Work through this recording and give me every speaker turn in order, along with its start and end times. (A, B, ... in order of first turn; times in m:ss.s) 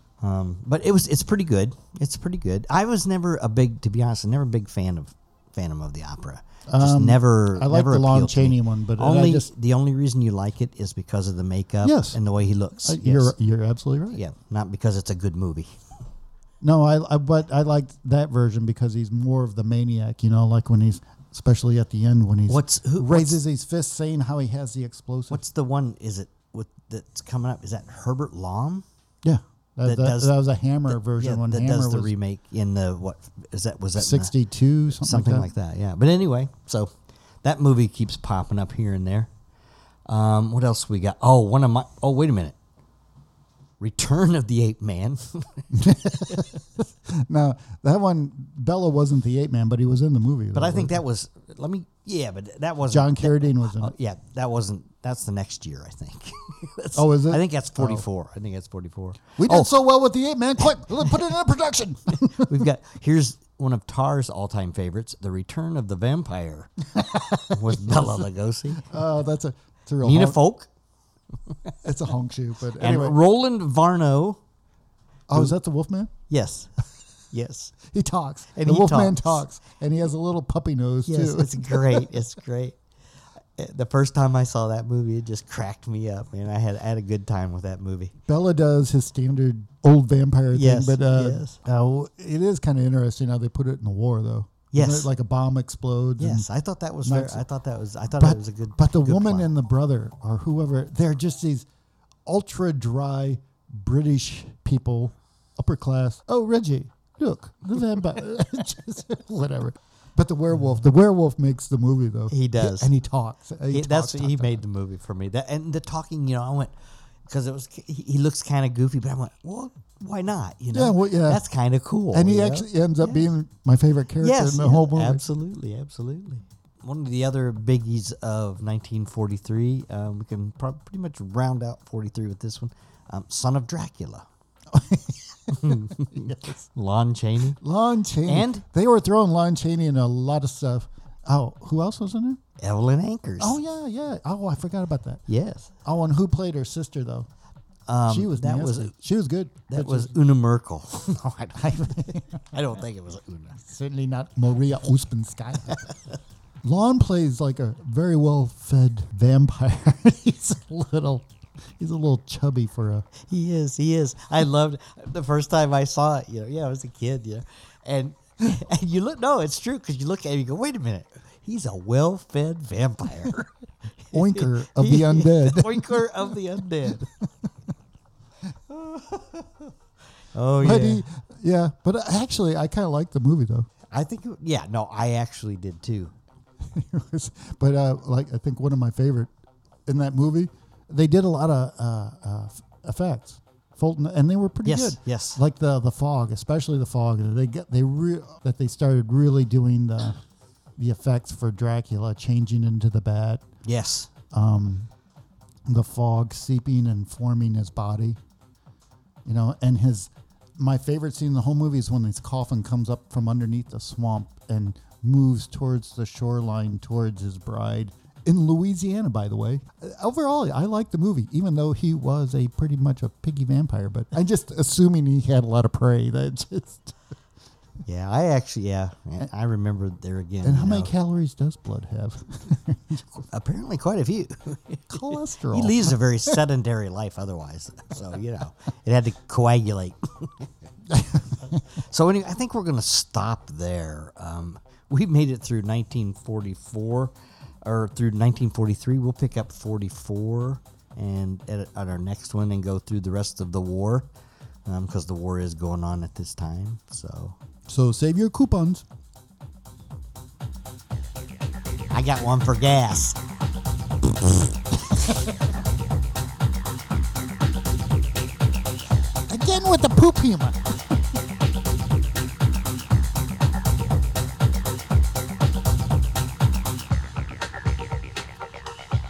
0:00.2-0:13.4 A
0:06.7-0:09.5 B
0:11.8-0:12.2 B
0:12.8-0:14.2 B
0:14.1-0:15.8 A
0:16.6-0:25.4 B
0:22.5-0:23.4 A
0:25.3-0:28.8 A
0:29.2-0:32.1 B
0:29.8-0:30.4 A
0:30.9-0:34.3 A
0:34.0-0:35.5 B
0:35.0-0:39.3 A
0:40.1-0:42.6 A
0:43.8-0:46.4 A
0:45.7-0:51.0 B
0:50.5-0:59.7 A
0:52.9-0:54.0 B
0:57.0-0:58.0 B
0:59.4-1:02.7 B
1:02.2-1:06.9 A
1:07.0-1:08.3 B
1:07.4-1:08.9 A
1:08.8-1:10.4 B
1:10.0-1:10.7 A
1:11.8-1:13.2 B
1:12.8-1:14.4 A
1:15.3-1:16.1 B
1:16.3-1:17.8 A
1:17.8-1:22.1 B
1:18.6-1:19.4 A
1:21.1-1:22.8 A
1:23.6-1:28.2 A
1:28.3-1:36.5 B
1:30.5-1:31.6 A
1:34.7-1:35.1 A
1:36.2-1:39.5 A
1:37.0-1:37.4 B
1:38.2-1:41.7 B
1:42.3-1:54.6 B
1:52.3-1:52.9 A
1:53.7-2:03.3 A
2:00.7-2:01.4 B
2:02.1-2:05.2 B
2:04.2-2:14.3 A
2:14.7-2:16.6 B
2:15.5-2:17.6 A
2:17.6-2:22.4 B
2:18.3-2:18.6 A
2:22.6-2:23.6 A
2:23.4-2:25.2 B
2:25.3-2:25.7 A
2:25.8-2:27.3 B
2:27.9-2:29.0 A
2:28.1-2:30.2 B
2:29.7-2:33.6 A
2:31.6-2:32.4 B
2:33.6-2:35.9 B
2:36.6-2:41.3 B
2:41.8-2:43.1 B
2:43.2-2:57.1 A
2:54.1-2:57.5 B
2:58.8-2:59.2 A
3:00.3-3:01.0 A
3:00.6-3:03.7 B
3:03.9-3:06.1 A
3:06.7-3:09.3 B
3:09.9-3:20.2 B
3:14.6-3:15.4 A
3:20.8-3:23.4 B
3:23.6-3:24.1 A
3:24.3-3:24.9 B
3:25.7-3:28.2 B
3:29.2-3:47.0 B
3:47.8-3:50.9 A
3:50.4-3:53.0 B
3:53.3-4:00.5 A
3:54.9-3:56.4 B
4:00.9-4:01.4 B
4:01.7-4:14.1 A
4:14.7-4:17.4 A
4:17.7-4:18.8 B
4:21.9-4:23.2 A
4:29.3-4:31.0 B